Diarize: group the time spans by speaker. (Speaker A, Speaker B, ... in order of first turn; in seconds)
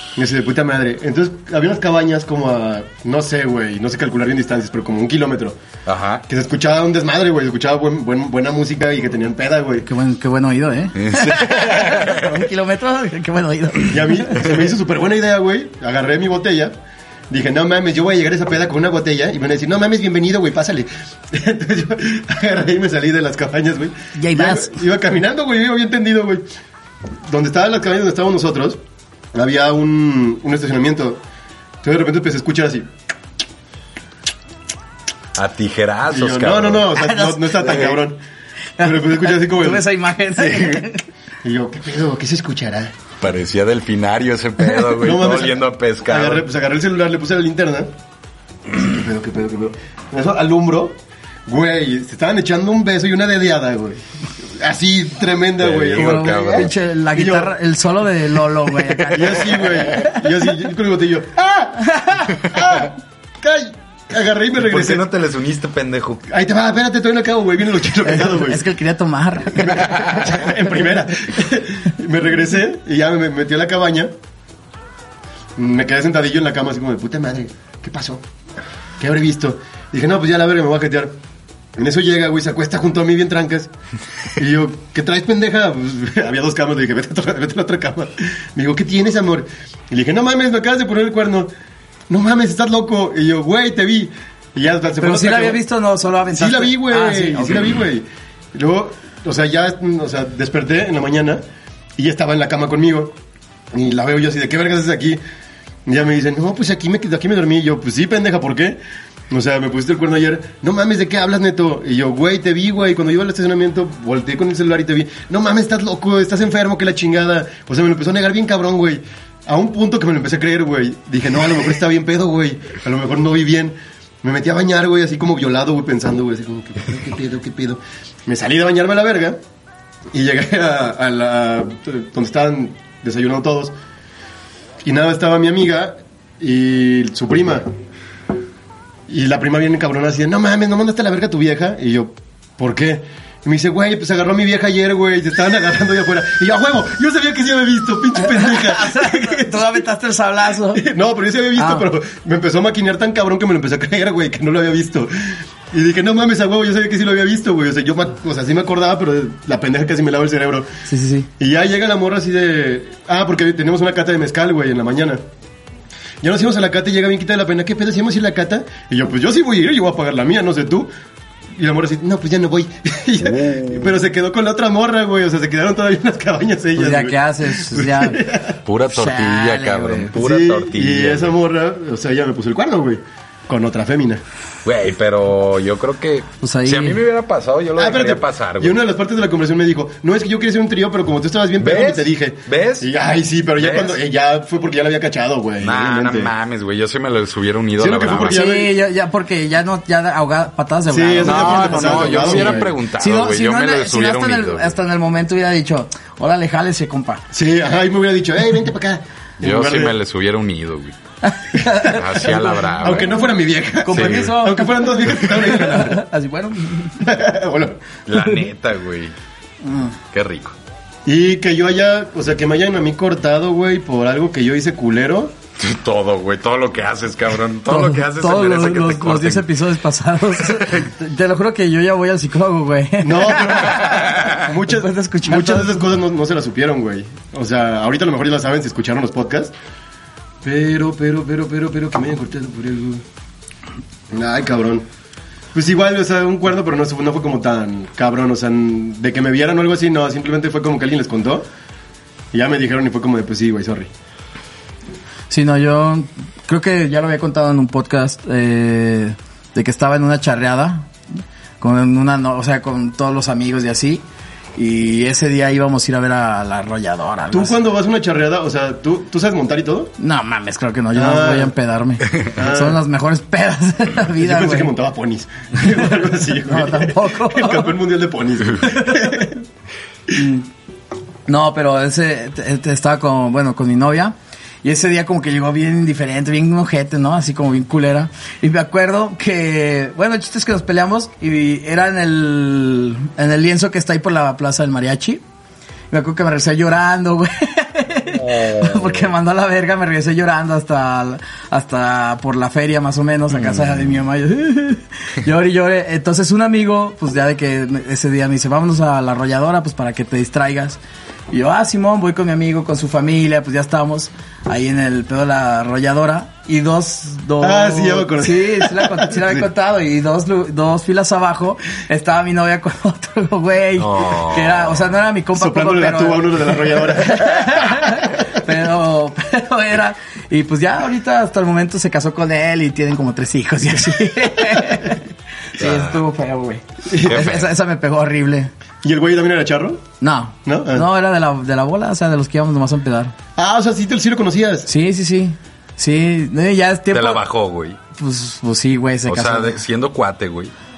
Speaker A: 0.1-5.6, 6.3-9.9, 13.9-16.8, 17.3-26.4, 27.3-28.8, 29.3-31.2, 31.8-32.9, 36.1-38.2, 38.8-39.9, 41.4-43.0, 45.0-47.9, 48.7-57.5, 59.1-65.1, 66.3-68.6, 69.5-74.1, 75.6-78.2, 79.0-81.2, 81.8-83.7, 84.4-91.5, 92.1-95.6, 96.3-101.4, 102.0-103.2, 103.7-105.2, 105.9-108.8, 109.3-129.4, 130.1-133.8, 134.8-137.7, 139.1-149.8, 150.7-160.7, 161.4-165.2, 166.2-170.9, 171.6-178.6, 180.2-184.2, 187.8-196.3, 197.8-198.7, 200.9-202.7, 207.3-210.0, 212.2-216.0, 217.0-217.8, 221.1-225.3, 233.0-239.5, 240.4-243.0, 244.1-244.9, 245.5-251.5, 252.3-253.9, 267.3-269.9, 270.9-271.6, 272.3-272.8, 274.2-279.4, 317.4-319.4, 325.4-327.7, 336.9-337.2, 338.8-339.8, 340.5-340.9, 343.4-344.7
Speaker B: 5.9-6.2, 11.0-12.2, 35.4-36.9, 40.4-40.8, 43.2-46.5, 55.6-56.8, 64.6-66.2, 173.3-173.9, 178.7-181.3, 184.7-188.8, 191.6-192.9, 193.6-194.0, 195.6-198.4, 201.2-204.8, 209.4-211.0, 211.8-213.1, 213.9-214.3, 218.1-219.1, 220.1-220.6, 225.6-229.5, 230.4-230.9, 234.0-234.3, 298.2-299.1, 303.4-303.9, 323.8-324.9, 335.6-336.0, 337.1-337.5, 346.9-347.8, 349.1-350.5
Speaker C: 9.8-14.4, 24.1-24.8, 37.0-38.0, 38.8-41.0, 44.6-45.0, 56.0-60.1, 61.9-62.3, 68.0-70.0, 95.0-97.7, 148.2-150.8, 151.6-151.9, 160.9-161.3, 176.8-178.2, 178.9-180.1, 186.4-187.0, 198.2-207.2, 211.2-212.3, 213.8-217.0, 219.6-219.9, 227.7-235.9, 255.3-260.9, 261.6-264.0, 264.6-267.6, 270.0-274.7, 276.2-277.7, 280.1-280.5, 281.3-295.2, 295.9-338.5, 340.0-343.1, 344.7-347.2, 348.0-349.6